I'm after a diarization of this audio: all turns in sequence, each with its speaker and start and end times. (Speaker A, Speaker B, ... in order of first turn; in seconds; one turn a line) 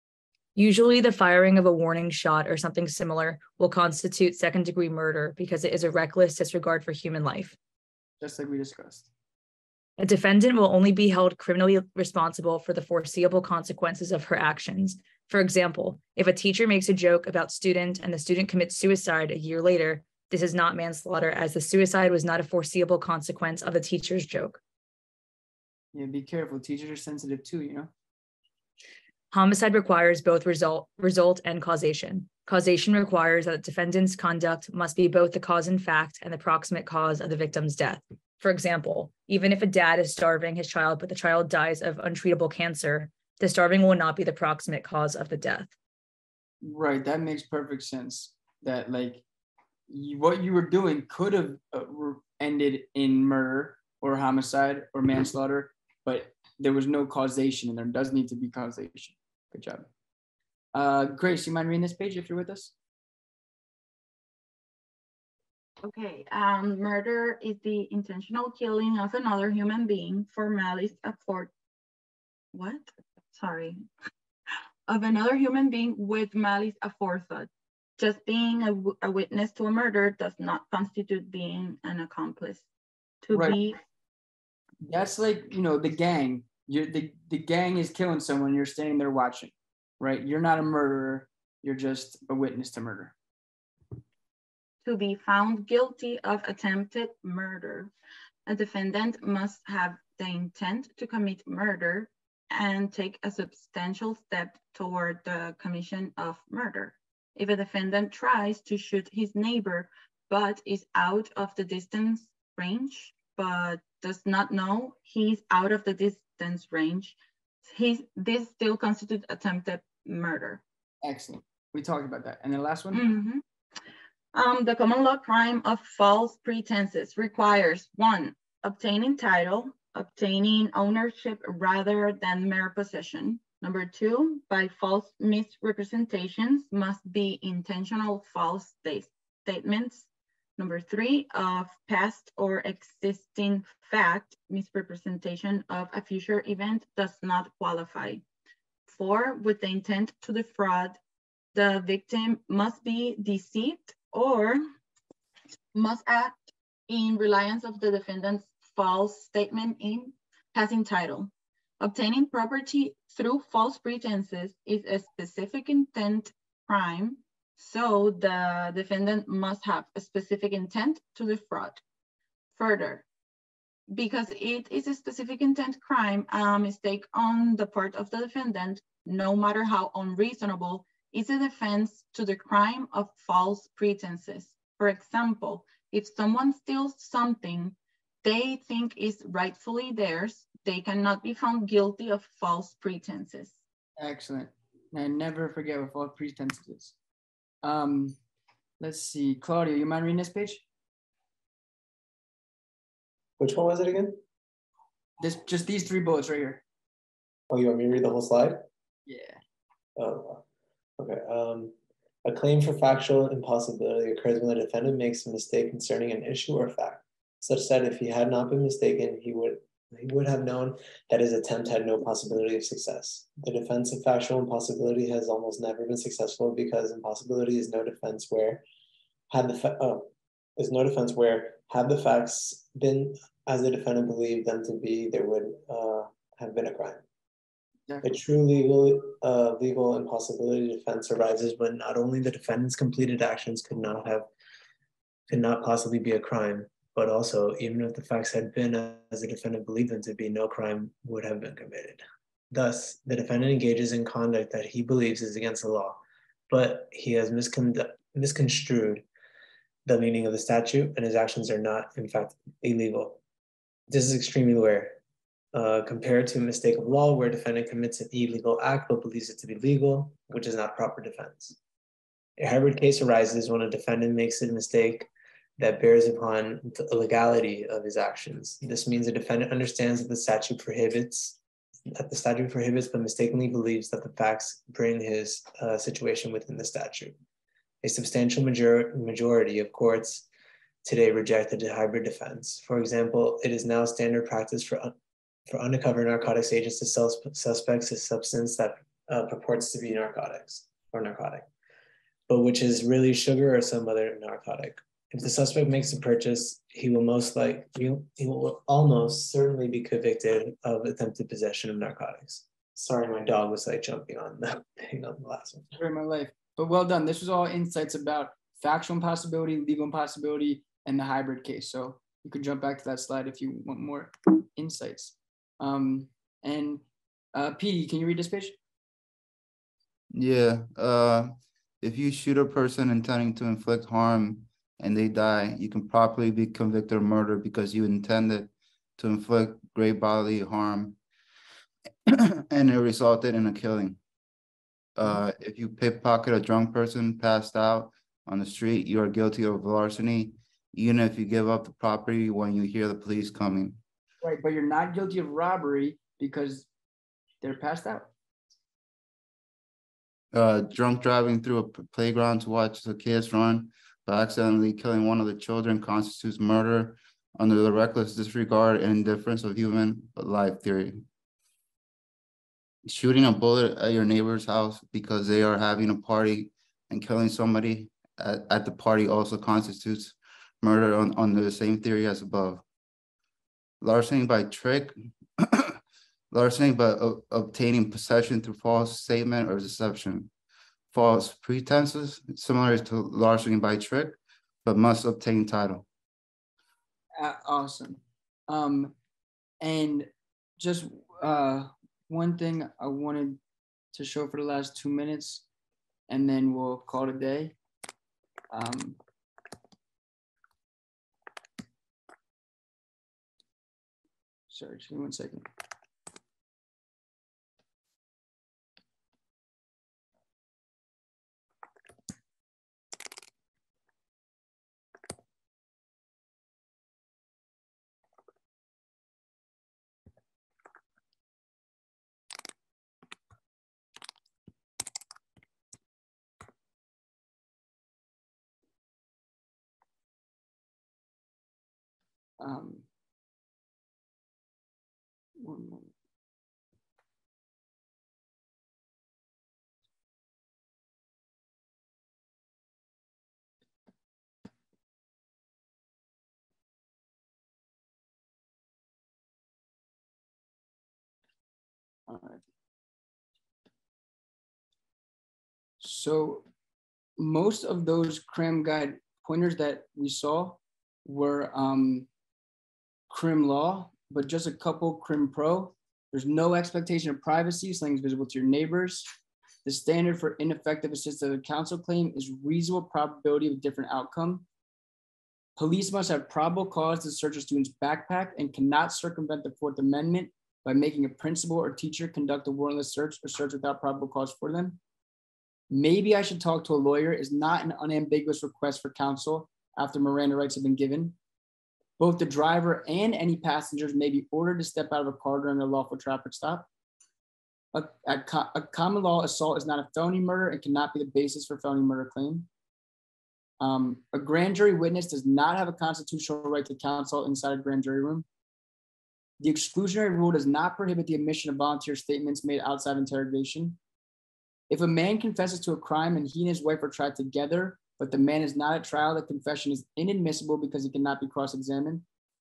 Speaker A: 0.6-7.6
Speaker B: 8.2-9.1
Speaker A: 10.0-24.6
Speaker B: 25.9-27.9
Speaker A: 29.3-45.7
Speaker B: 46.6-49.2
Speaker B: 49.9-59.9
Speaker B: 60.7-62.7
Speaker C: 65.8-71.5
Speaker C: 72.5-73.8
Speaker C: 74.9-82.7
Speaker C: 83.2-83.8
Speaker B: 83.3-83.6
Speaker B: 84.8-93.2
Speaker C: 94.8-97.9
Speaker C: 98.5-120.6
Speaker B: 121.0-123.0
Speaker C: 122.9-123.4
Speaker C: 124.3-140.1
Speaker C: 140.6-148.2
Speaker C: 148.9-151.0
Speaker C: 151.5-154.6
Speaker C: 155.7-171.8
Speaker C: 172.5-173.1
Speaker C: 173.9-193.6
Speaker B: 194.0-196.9
Speaker B: 197.6-198.2
Speaker B: 198.8-200.6
Speaker D: 203.4-204.2
Speaker B: 205.2-206.6
Speaker D: 207.5-208.7
Speaker B: 209.1-209.4
Speaker D: 210.0-210.4
Speaker D: 211.0-211.7
Speaker D: 212.2-228.6
Speaker D: 229.3-237.0
Speaker B: 237.9-238.2
Speaker D: 238.0-244.3
Speaker D: 245.3-259.1
Speaker D: 259.9-263.2
Speaker D: 263.9-265.0
Speaker D: 265.5-271.6
Speaker D: 272.4-281.4
Speaker D: 281.9-287.1
Speaker D: 287.8-290.3
Speaker D: 290.8-294.9
Speaker D: 295.5-301.5
Speaker D: 302.3-315.7
Speaker B: 315.8-326.8
Speaker B: 327.3-328.6
Speaker E: 330.1-341.0
Speaker E: 342.1-344.0
Speaker E: 345.0-353.8
Speaker B: 354.2-356.7
Speaker B: 357.4-358.1
Speaker E: 360.3-371.1
Speaker E: 372.9-382.6
Speaker E: 383.8-385.8
Speaker E: 386.3-390.3
Speaker E: 390.9-395.9
Speaker B: 397.2-398.9
Speaker B: 399.6-400.1
Speaker B: 400.6-403.4
Speaker B: 403.9-405.4
Speaker B: 406.1-407.6
Speaker B: 408.5-409.0
Speaker B: 414.5-415.5
Speaker B: 442.4-442.9
Speaker B: 445.4-445.9
Speaker B: 462.1-462.4
Speaker B: 465.8-466.4
Speaker B: 467.2-472.1
Speaker B: 473.1-479.1
Speaker B: 479.6-484.4
Speaker B: 485.6-494.8
Speaker B: 495.7-501.2
Speaker B: 502.0-506.7
Speaker B: 507.7-512.5
Speaker B: 513.6-518.3
Speaker B: 519.4-523.8
Speaker B: 524.7-532.0